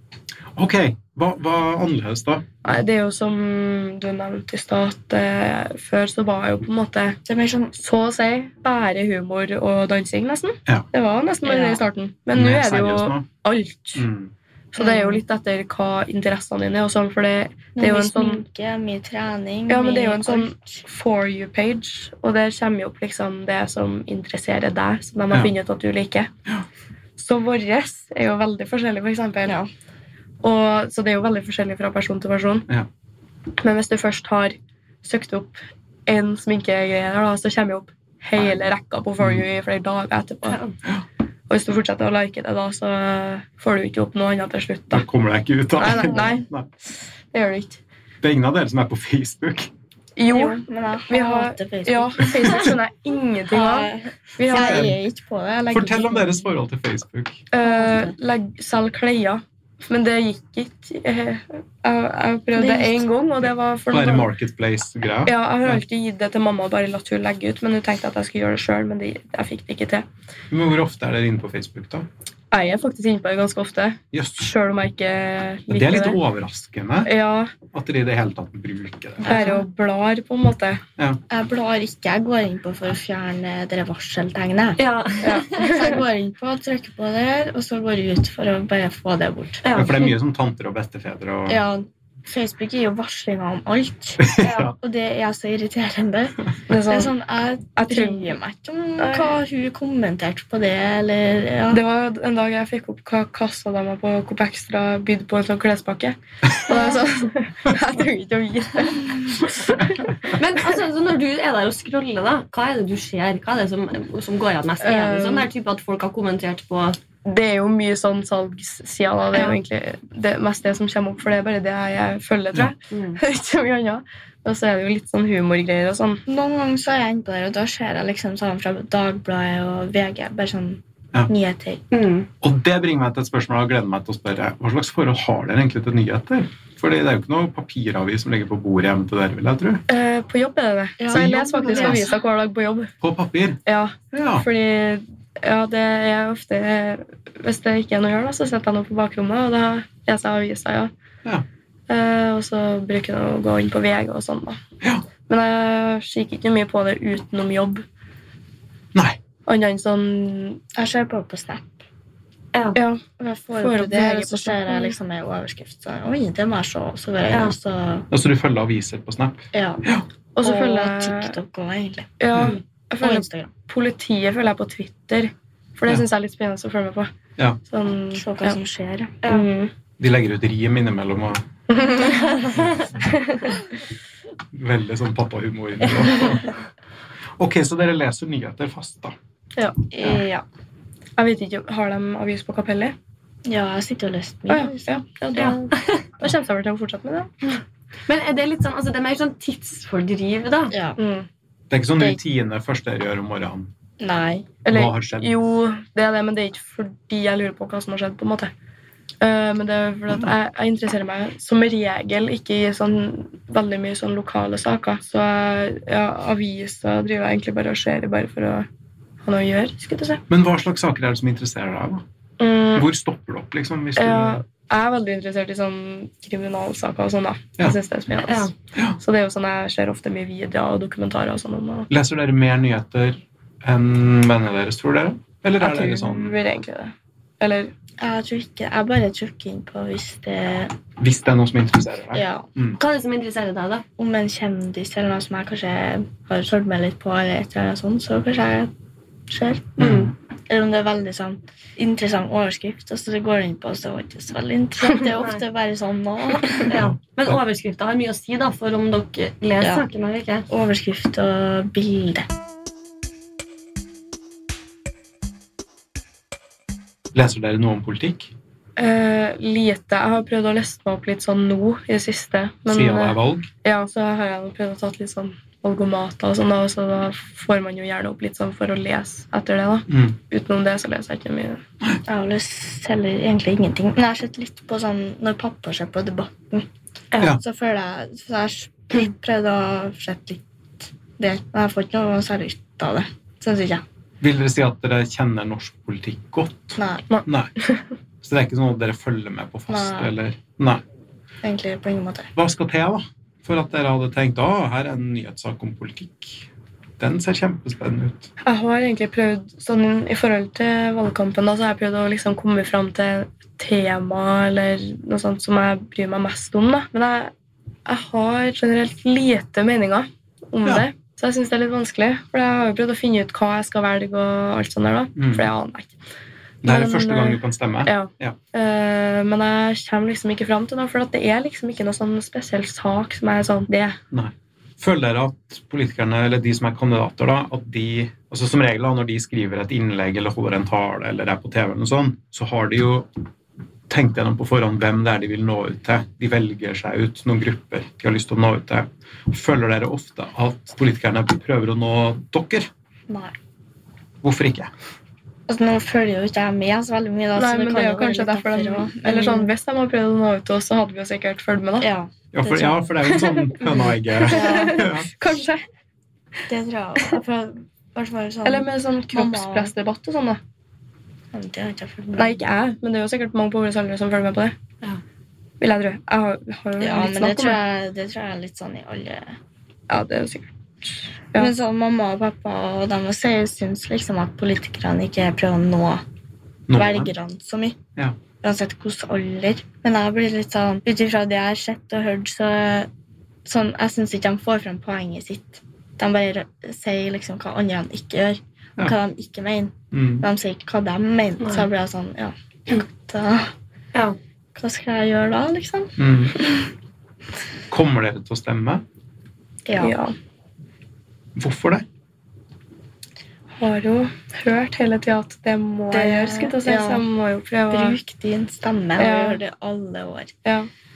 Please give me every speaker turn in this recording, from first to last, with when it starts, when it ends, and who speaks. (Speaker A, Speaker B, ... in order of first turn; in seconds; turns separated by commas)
Speaker A: 0.6-2.5, Speaker B: 2.6-7.2, Speaker C: 7.2-7.7, Speaker B: 7.7-14.1, Speaker C: 11.4-11.8, Speaker A: 12.3-13.2, Speaker A: 13.9-14.3, Speaker B: 14.7-18.4, Speaker C: 14.8-15.2, Speaker C: 17.8-20.8, Speaker B: 19.7-26.3, Speaker B: 27.2-29.6, Speaker B: 30.4-32.7, Speaker B: 33.6-40.6, Speaker A: 39.2-39.4, Speaker D: 40.5-40.7, Speaker B: 41.5-45.0, Speaker A: 44.9-46.7, Speaker B: 45.8-47.8, Speaker C: 46.0-46.4, Speaker A: 48.2-49.7, Speaker B: 50.1-54.9, Speaker C: 50.3-52.6, Speaker C: 53.5-56.5, Speaker A: 54.5-55.0, Speaker A: 55.7-57.4, Speaker B: 57.5-64.3, Speaker C: 57.6-58.1, Speaker C: 62.5-63.0, Speaker A: 63.9-65.8, Speaker B: 65.2-70.0, Speaker A: 70.5-72.1, Speaker B: 72.5-76.2, Speaker A: 74.1-74.5, Speaker A: 75.7-79.5, Speaker B: 77.0-77.5, Speaker C: 79.2-79.6, Speaker B: 79.2-80.8, Speaker C: 81.3-84.8, Speaker D: 84.8-85.9, Speaker B: 85.2-86.0, Speaker C: 85.5-89.6, Speaker D: 89.6-90.1, Speaker A: 89.7-91.6, Speaker C: 91.5-94.2, Speaker A: 94.2-94.7, Speaker D: 94.4-94.7, Speaker C: 94.8-101.8, Speaker B: 96.7-97.1, Speaker B: 97.8-98.3, Speaker B: 99.0-99.3, Speaker B: 101.7-110.1, Speaker C: 106.7-107.0, Speaker D: 110.3-117.0, Speaker B: 114.8-115.5, Speaker B: 117.2-126.2, Speaker D: 122.9-123.2, Speaker C: 126.3-131.8, Speaker D: 131.9-132.3, Speaker A: 132.4-139.8, Speaker B: 139.9-142.9, Speaker C: 141.0-142.1, Speaker A: 141.1-142.1, Speaker A: 143.0-143.6, Speaker B: 143.7-150.9, Speaker A: 144.1-144.5, Speaker B: 151.9-154.6, Speaker B: 155.3-157.8, Speaker A: 158.9-159.2, Speaker B: 159.4-160.6, Speaker C: 160.7-161.8, Speaker D: 162.5-162.8, Speaker B: 162.7-163.0, Speaker C: 163.2-168.1, Speaker B: 163.6-164.9, Speaker A: 168.1-170.1, Speaker C: 169.5-169.8, Speaker B: 170.3-171.3, Speaker C: 170.4-172.1, Speaker B: 172.2-177.1, Speaker C: 173.0-173.5, Speaker B: 177.7-178.6, Speaker C: 178.1-179.2, Speaker D: 179.2-179.5, Speaker B: 179.2-179.7, Speaker A: 180.0-181.4, Speaker B: 181.7-182.5, Speaker A: 182.5-182.9, Speaker B: 183.1-183.6, Speaker A: 184.5-186.6, Speaker A: 187.4-189.1, Speaker B: 189.6-189.9, Speaker C: 189.9-190.4, Speaker B: 191.2-192.9, Speaker C: 193.4-195.6, Speaker B: 194.5-197.6, Speaker D: 195.3-196.0, Speaker D: 198.1-200.7, Speaker C: 200.7-201.0, Speaker B: 201.0-201.3, Speaker A: 201.7-203.7, Speaker C: 204.0-204.5, Speaker B: 204.6-208.5, Speaker A: 204.7-205.3, Speaker B: 209.2-218.7, Speaker B: 219.2-220.2, Speaker A: 220.3-222.0, Speaker B: 222.4-222.9, Speaker A: 222.7-224.4, Speaker B: 224.0-231.9, Speaker D: 228.2-228.5, Speaker A: 231.9-236.4, Speaker B: 235.6-237.7, Speaker C: 238.0-240.7, Speaker A: 241.0-242.8, Speaker C: 242.1-242.4, Speaker D: 242.8-243.8, Speaker C: 244.0-248.7, Speaker C: 249.3-249.7, Speaker A: 249.8-250.1, Speaker C: 250.5-256.7, Speaker D: 255.1-255.4, Speaker D: 256.6-260.4, Speaker A: 256.8-257.4, Speaker C: 259.6-259.9, Speaker C: 260.5-262.3, Speaker A: 267.1-268.3, Speaker B: 268.8-281.6, Speaker A: 272.7-273.5, Speaker A: 279.9-280.1, Speaker C: 282.1-286.7, Speaker D: 287.1-287.4, Speaker C: 287.2-293.8, Speaker A: 294.2-297.5, Speaker C: 296.8-297.0, Speaker B: 297.1-297.8, Speaker A: 298.2-300.8, Speaker C: 299.7-300.1, Speaker C: 301.4-302.3, Speaker A: 302.4-306.5, Speaker A: 307.0-308.3, Speaker B: 308.4-317.3, Speaker B: 317.9-325.9, Speaker A: 325.2-325.5, Speaker A: 326.6-328.4, Speaker B: 326.6-334.0, Speaker A: 334.1-343.1, Speaker A: 343.9-352.7, Speaker C: 353.1-353.4, Speaker A: 354.2-354.7, Speaker C: 355.5-359.5, Speaker B: 357.4-361.9, Speaker C: 361.8-362.8, Speaker A: 362.3-365.3, Speaker B: 363.0-365.6, Speaker C: 364.3-364.9, Speaker C: 366.5-369.7, Speaker B: 368.4-370.4, Speaker C: 371.3-372.4, Speaker B: 372.2-374.5, Speaker B: 375.6-377.6, Speaker C: 376.8-379.3, Speaker B: 379.9-380.5, Speaker C: 381.3-386.0, Speaker A: 386.7-387.1, Speaker C: 386.7-387.8, Speaker C: 388.4-392.9, Speaker C: 393.4-403.5, Speaker A: 399.9-400.2, Speaker D: 401.4-401.6, Speaker C: 404.5-406.6, Speaker A: 406.0-406.4, Speaker A: 407.7-408.8, Speaker C: 409.6-409.9, Speaker B: 409.8-410.1, Speaker A: 411.3-411.8, Speaker B: 413.5-418.0, Speaker C: 415.9-417.1, Speaker C: 417.7-420.3, Speaker B: 419.0-419.4